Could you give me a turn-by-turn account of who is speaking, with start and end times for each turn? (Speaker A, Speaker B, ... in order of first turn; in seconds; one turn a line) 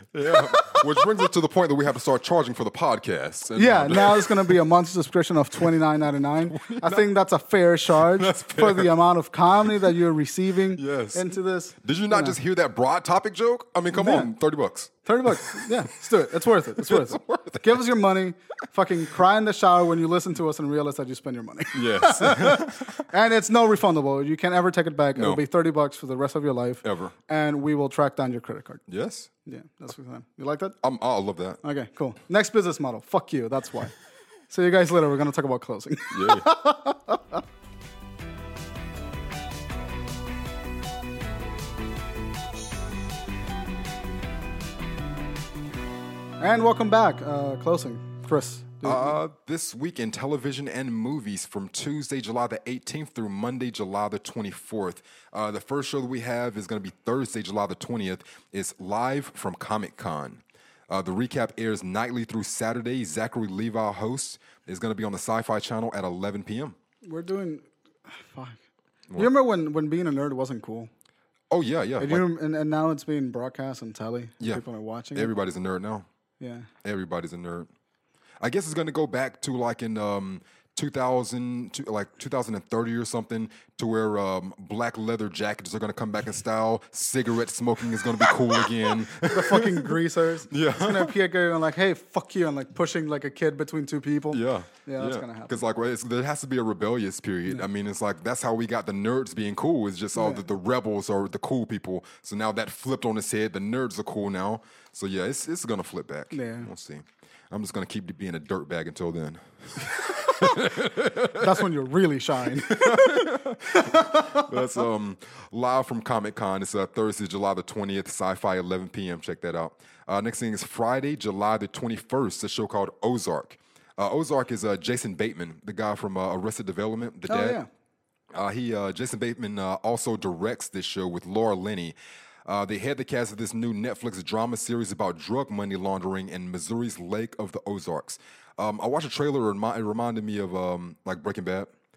Speaker A: 0.1-4.6
Speaker B: 0.3-0.8
Speaker B: 3.6-12.4
Speaker A: 6.5-7.1
Speaker A: 7.9-8.9
Speaker A: 9.6-9.9
Speaker A: 10.8-15.9
Speaker B: 13.9-14.3
Speaker B: 15.1-28.8
Speaker A: 16.8-17.8
Speaker A: 21.7-23.1
Speaker A: 25.1-25.4
Speaker A: 26.8-27.1
Speaker A: 28.9-29.3
Speaker B: 29.5-30.8
Speaker A: 30.8-31.6
Speaker B: 31.6-34.0
Speaker B: 34.5-37.4
Speaker A: 36.1-36.5
Speaker B: 46.4-49.2
Speaker A: 48.8-66.8
Speaker B: 67.0-68.6
Speaker B: 69.2-70.9
Speaker A: 71.5-72.2
Speaker B: 72.0-75.3
Speaker A: 75.1-76.1
Speaker B: 76.4-76.7
Speaker A: 76.8-77.7
Speaker A: 78.4-90.0
Speaker B: 89.2-95.6
Speaker A: 90.5-91.1
Speaker A: 94.3-111.7
Speaker B: 100.2-100.5
Speaker B: 106.3-106.7
Speaker B: 111.3-114.8
Speaker A: 112.5-127.6
Speaker B: 127.3-127.7
Speaker A: 128.3-141.7